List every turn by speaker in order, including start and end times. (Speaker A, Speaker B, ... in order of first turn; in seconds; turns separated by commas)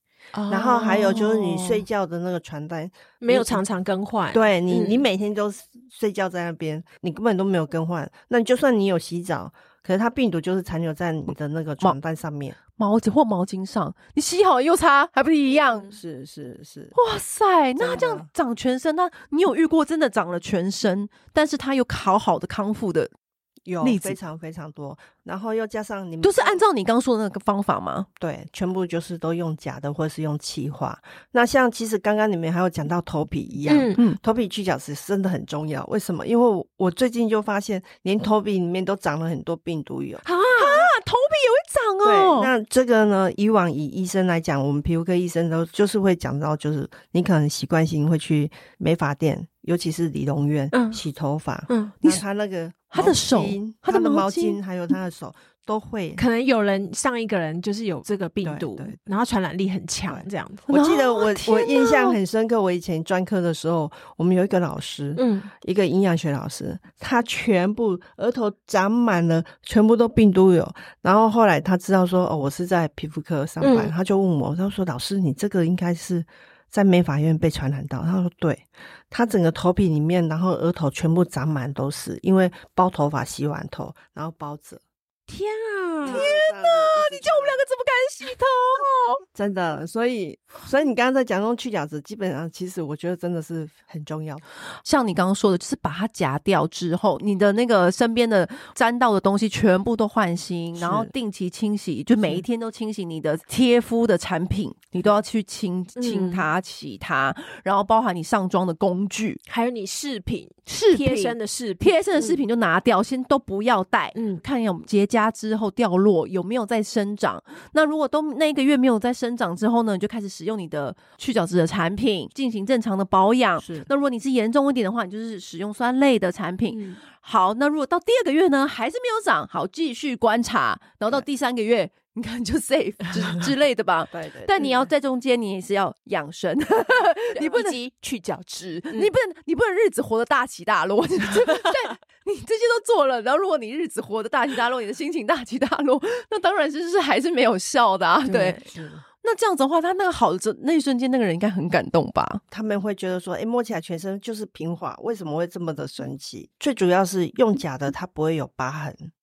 Speaker A: 0.3-1.8, Speaker B: 0.5-3.6, Speaker A: 3.2-5.0, Speaker B: 4.3-12.6, Speaker C: 12.7-15.9, Speaker B: 15.9-16.9, Speaker C: 16.9-23.1, Speaker B: 17.8-18.3, Speaker B: 23.6-26.6, Speaker C: 23.8-24.2, Speaker C: 26.2-28.1, Speaker B: 28.2-40.9, Speaker A: 33.7-34.0, Speaker A: 40.2-40.8, Speaker C: 40.5-42.5, Speaker B: 42.0-56.2, Speaker A: 50.7-51.0, Speaker A: 51.7-51.9, Speaker C: 52.9-54.6, Speaker A: 56.1-60.6, Speaker B: 58.4-59.0, Speaker B: 60.1-84.8, Speaker C: 60.7-62.2, Speaker A: 65.2-65.5, Speaker A: 73.6-73.9, Speaker A: 85.3-86.3, Speaker B: 86.0-87.6, Speaker C: 86.0-89.2, Speaker B: 89.3-94.4, Speaker C: 94.8-109.4, Speaker B: 100.8-101.1, Speaker A: 106.0-106.5, Speaker A: 109.5-112.4, Speaker C: 110.7-137.8, Speaker A: 114.1-114.4, Speaker B: 123.6-123.9, Speaker A: 126.7-127.0, Speaker B: 134.1-134.9, Speaker A: 137.4-139.1, Speaker C: 138.6-148.6, Speaker A: 141.4-141.7, Speaker A: 148.2-148.6, Speaker B: 148.6-149.0, Speaker C: 149.2-152.4, Speaker B: 152.5-159.1